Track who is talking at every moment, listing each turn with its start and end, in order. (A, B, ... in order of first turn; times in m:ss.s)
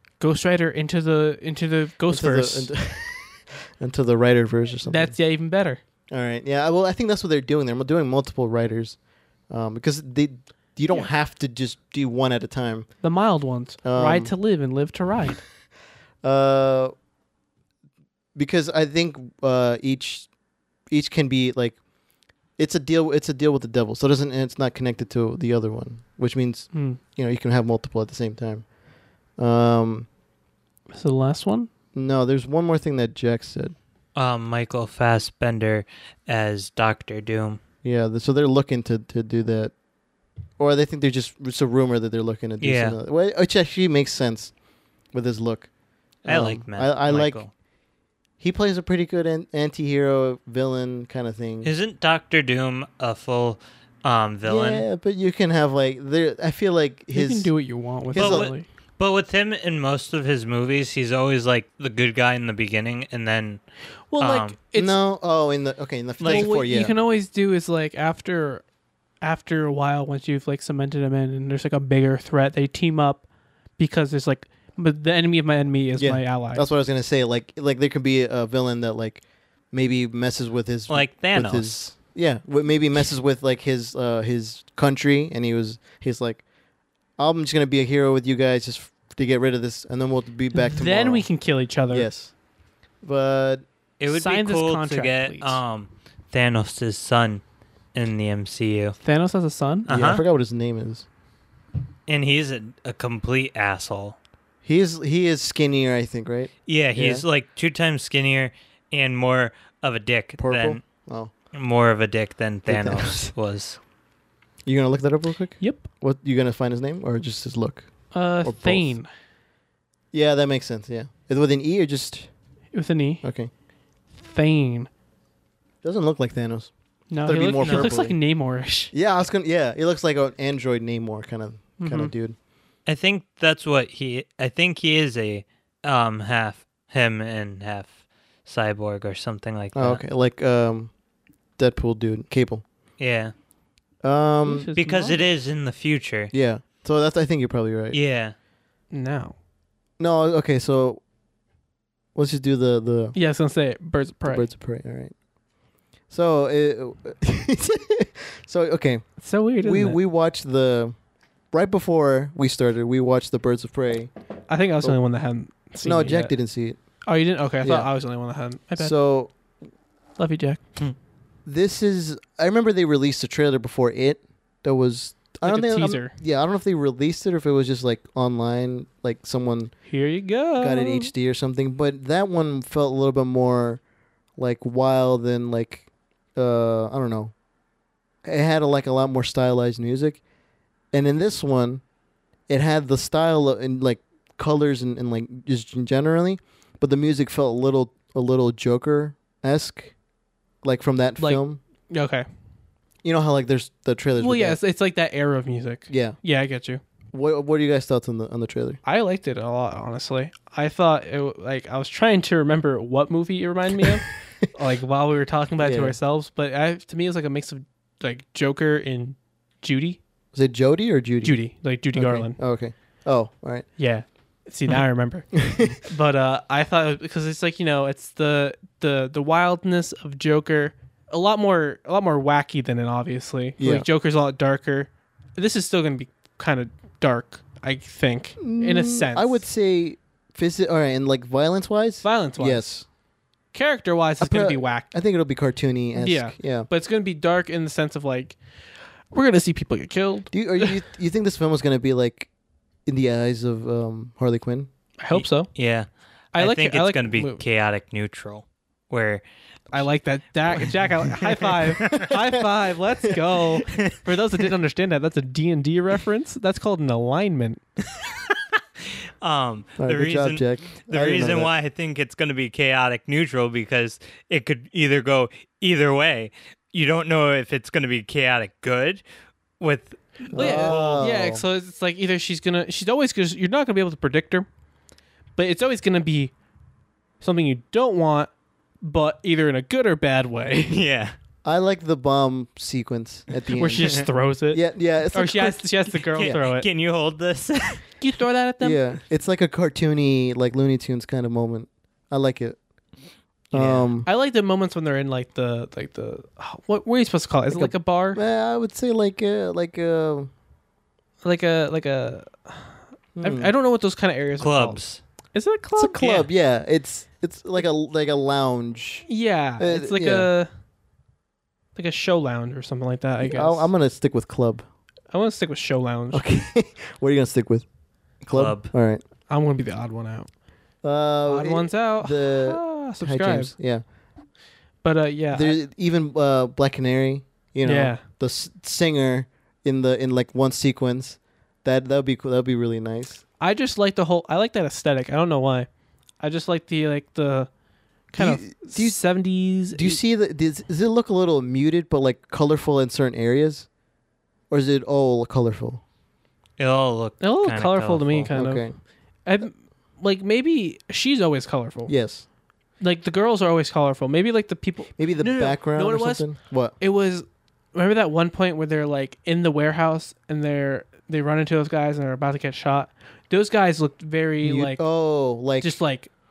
0:00.2-0:02.7 A
0:02.1-0:05.2 B
0:04.8-0:05.8 A
0:06.1-0:09.0 B
0:09.5-0:12.9 B
0:13.0-0:15.4 A
0:13.8-0:14.3 B
0:16.2-0:16.9 B
0:18.4-0:20.3 B
0:20.9-0:21.8 B
0:22.6-0:28.7 B
0:26.7-0:27.0 A
0:29.4-0:30.1 B
0:30.9-0:31.7 A
0:31.9-0:33.8 B
0:34.2-0:37.6 C
0:37.8-0:39.7 B
0:40.6-0:44.5 B
0:42.6-0:43.0 C
0:45.1-0:45.7 B
0:46.2-0:47.4 B
0:46.2-0:47.5 C
0:48.4-0:51.7 B
0:51.6-0:54.9 C
0:54.4-0:57.5 B
0:57.1-0:58.7 A
0:58.1-0:58.5 B
0:58.2-1:03.6 C
1:04.1-1:05.0 A
1:04.2-1:04.6 C
1:04.8-1:06.9 B
1:06.2-1:06.5 C
1:06.2-1:08.6 A
1:09.2-1:13.3 A
1:13.8-1:16.6 A
1:16.0-1:26.4 B
1:20.9-1:21.8 C
1:27.2-1:31.3 B
1:30.5-1:32.1 A
1:31.9-1:32.3 B
1:33.0-1:33.6 B
1:34.0-1:37.4 C
1:34.1-1:35.6 A
1:37.9-1:39.0 C
1:39.0-1:39.9 A
1:39.9-1:40.2 C
1:39.9-1:41.1 B
1:42.1-1:44.2 C
1:44.6-1:47.2 B
1:46.7-1:50.9 C
1:50.4-1:51.3 B
1:51.5-1:53.8 C
1:52.7-1:53.3 B
1:54.6-1:59.0 B
1:55.6-1:55.9 A
1:58.1-1:59.1 A
2:00.1-2:02.3 B
2:02.7-2:03.2 A
2:03.2-2:03.5 B
2:04.2-2:04.9 A
2:05.8-2:06.7 B
2:07.1-2:08.9 A
2:07.2-2:08.2 B
2:07.6-2:07.9 C
2:08.9-2:12.4 B
2:11.8-2:12.1 A
2:12.9-2:20.0 C
2:19.8-2:20.9 B
2:21.6-2:22.6 B
2:23.0-2:23.3 C
2:24.0-2:24.7 B
2:24.4-2:25.2 A
2:24.8-2:26.3 C
2:26.3-2:28.0 B
2:27.9-2:28.4 C
2:28.9-2:29.4 A
2:30.0-2:31.0 B
2:32.2-2:33.2 B
2:33.1-2:34.5 A
2:34.3-2:35.2 B
2:36.1-2:39.1 B
2:39.2-2:40.0 A
2:39.6-2:41.0 B
2:41.5-2:44.1 B
2:44.5-2:46.3 A
2:45.8-2:46.8 B
2:47.0-2:48.9 A
2:47.6-2:47.9 B
2:48.8-2:49.3 B
2:50.2-2:50.6 A
2:51.5-2:59.8 B
2:55.4-2:56.2 A
2:59.9-3:01.1 A
3:00.6-3:03.8 B
3:04.4-3:07.3 B
3:08.2-3:10.2 B
3:10.9-3:11.8 B
3:12.5-3:20.0 B
3:20.6-3:21.6 B
3:21.2-3:22.3 A
3:23.0-3:24.6 B
3:24.2-3:26.8 A
3:25.9-3:26.2 B
3:27.1-3:28.8 B
3:28.8-3:40.0 A
3:35.6-3:36.0 B
3:40.3-3:41.4 B
3:41.2-3:42.4 A
3:41.9-3:43.7 B
3:43.8-3:59.4 A
3:45.4-3:45.8 B
3:53.6-3:53.9 B
3:58.4-4:02.9 B
4:02.0-4:02.7 A
4:03.5-4:04.9 A
4:04.2-4:06.7 B
4:06.0-4:08.4 A
4:09.1-4:10.8 A
4:10.3-4:12.3 B
4:12.9-4:14.7 B
4:15.0-4:15.5 A
4:15.1-4:19.2 C
4:16.3-4:17.4 A
4:19.7-4:27.6 A
4:20.5-4:22.1 C
4:21.9-4:22.4 B
4:23.0-4:23.8 B
4:29.2-4:39.0 C
4:29.8-4:31.5 B
4:39.6-4:41.0 C
4:40.3-4:44.5 A
4:40.3-4:41.4 B
4:45.4-4:46.3 A
4:47.2-4:48.3 A
4:48.8-4:50.8 A
4:50.7-4:51.2 C
4:51.4-4:55.6 B
4:53.6-4:56.7 A
4:56.1-4:57.8 C
4:58.0-4:58.8 A
4:58.6-5:02.6 B
5:03.5-5:04.1 B
5:03.5-5:03.9 C
5:04.0-5:08.2 A
5:07.5-5:10.3 B
5:11.2-5:14.8 A
5:13.2-5:13.5 B
5:14.4-5:15.0 C
5:15.3-5:16.0 A
5:15.8-5:19.1 B
5:16.0-5:16.3 C
5:19.1-5:20.5 A
5:19.6-5:20.3 B
5:21.8-5:23.7 A
5:23.2-5:24.6 B
5:25.1-5:26.3 A
5:26.1-5:27.7 B
5:28.2-5:28.7 C
5:28.3-5:29.0 B
5:29.3-5:30.3 A
5:30.8-5:33.8 B
5:31.3-5:33.5 A
5:34.8-5:35.6 A
5:35.3-5:43.2 B
5:37.6-5:38.0 A
5:43.4-5:45.7 A
5:46.2-5:47.5 A
5:48.1-5:50.0 A
5:48.2-5:49.0 B
5:49.7-5:53.7 B
5:54.5-5:55.8 B
5:56.6-5:58.3 C
5:57.2-5:58.7 A
5:58.3-5:58.8 B
5:59.3-6:01.9 A
6:01.9-6:02.2 B
6:02.8-6:14.8 A
6:05.0-6:06.8 B
6:14.4-6:15.8 B
6:15.6-6:16.1 A